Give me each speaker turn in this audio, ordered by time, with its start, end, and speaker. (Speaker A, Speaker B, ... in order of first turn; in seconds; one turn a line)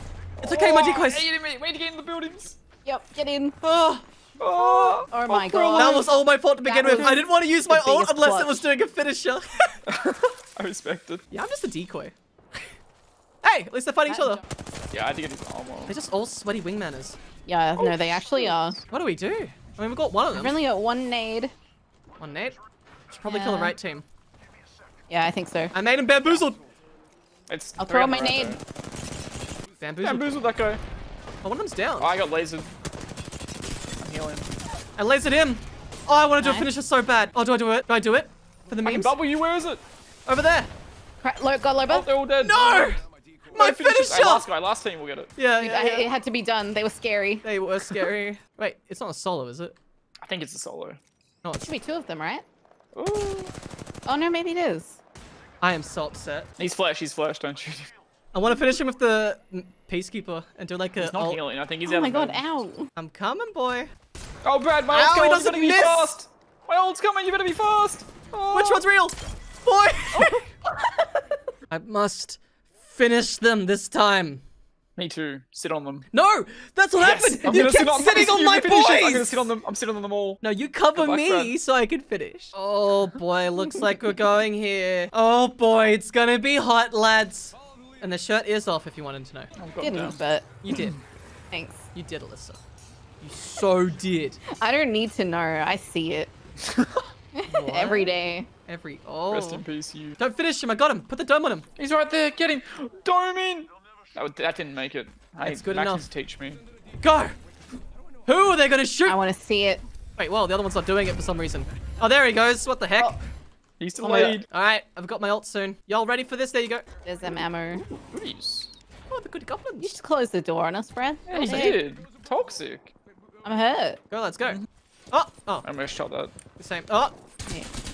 Speaker A: 0.4-1.3
Speaker B: 0.4-2.6
Speaker C: 2.9-3.6
Speaker A: 3.6-4.0
Speaker B: 4.4-6.1
Speaker C: 4.6-6.1
Speaker A: 5.8-9.8
Speaker C: 6.6-8.7
Speaker B: 6.9-7.2
Speaker B: 9.9-11.2
Speaker A: 11.3-12.6
Speaker A: 13.4-14.4
Speaker C: 14.1-14.4
Speaker B: 14.9-15.9
Speaker A: 15.9-17.2
Speaker C: 17.5-18.8
Speaker B: 17.8-18.8
Speaker A: 18.9-20.6
Speaker C: 20.3-21.5
Speaker A: 22.2-22.6
Speaker A: 23.1-24.1
Speaker C: 23.2-23.8
Speaker C: 25.1-25.7
Speaker A: 25.7-26.6
Speaker B: 27.5-28.6
Speaker C: 27.8-28.6
Speaker A: 29.8-30.4
Speaker B: 30.0-30.8
Speaker A: 31.4-32.1
Speaker B: 32.0-32.7
Speaker B: 34.0-34.5
Speaker A: 35.0-39.1
Speaker C: 36.4-36.7
Speaker B: 38.8-39.8
Speaker A: 40.3-40.7
Speaker C: 41.2-42.1
Speaker B: 41.9-43.0
Speaker A: 42.4-44.5
Speaker B: 43.5-45.3
Speaker A: 45.4-46.1
Speaker C: 45.6-47.5
Speaker A: 47.4-49.8
Speaker B: 50.2-51.0
Speaker A: 51.4-51.7
Speaker C: 51.6-52.5
Speaker B: 52.9-53.5
Speaker C: 54.1-55.0
Speaker A: 55.6-56.5
Speaker B: 56.6-57.9
Speaker A: 58.3-61.4
Speaker B: 61.0-62.5
Speaker C: 61.9-62.9
Speaker A: 63.0-63.9
Speaker B: 64.4-68.8
Speaker A: 64.9-66.2
Speaker A: 68.5-70.5
Speaker A: 71.7-74.4
Speaker B: 75.0-76.1
Speaker A: 76.1-79.5
Speaker B: 77.0-80.4
Speaker A: 80.4-89.5
Speaker B: 80.9-81.5
Speaker B: 89.6-90.2
Speaker C: 89.8-90.5
Speaker A: 90.6-91.0
Speaker B: 90.7-91.0
Speaker C: 91.5-91.8
Speaker A: 91.9-92.6
Speaker A: 93.2-94.4
Speaker C: 94.5-96.3
Speaker B: 96.6-97.1
Speaker C: 97.3-98.5
Speaker A: 97.5-98.1
Speaker A: 98.7-99.7
Speaker B: 99.3-100.2
Speaker A: 100.2-101.7
Speaker B: 101.8-106.6
Speaker A: 105.4-106.1
Speaker A: 107.0-107.3
Speaker A: 108.3-109.2
Speaker C: 109.1-109.8
Speaker A: 110.2-113.2
Speaker B: 113.8-114.5
Speaker A: 114.0-116.8
Speaker C: 117.0-117.8
Speaker B: 117.8-118.8
Speaker A: 119.1-120.0
Speaker C: 119.8-121.8
Speaker B: 121.3-122.9
Speaker C: 123.4-124.0
Speaker A: 124.1-124.6
Speaker A: 125.1-125.7
Speaker B: 125.6-126.3
Speaker A: 126.6-127.1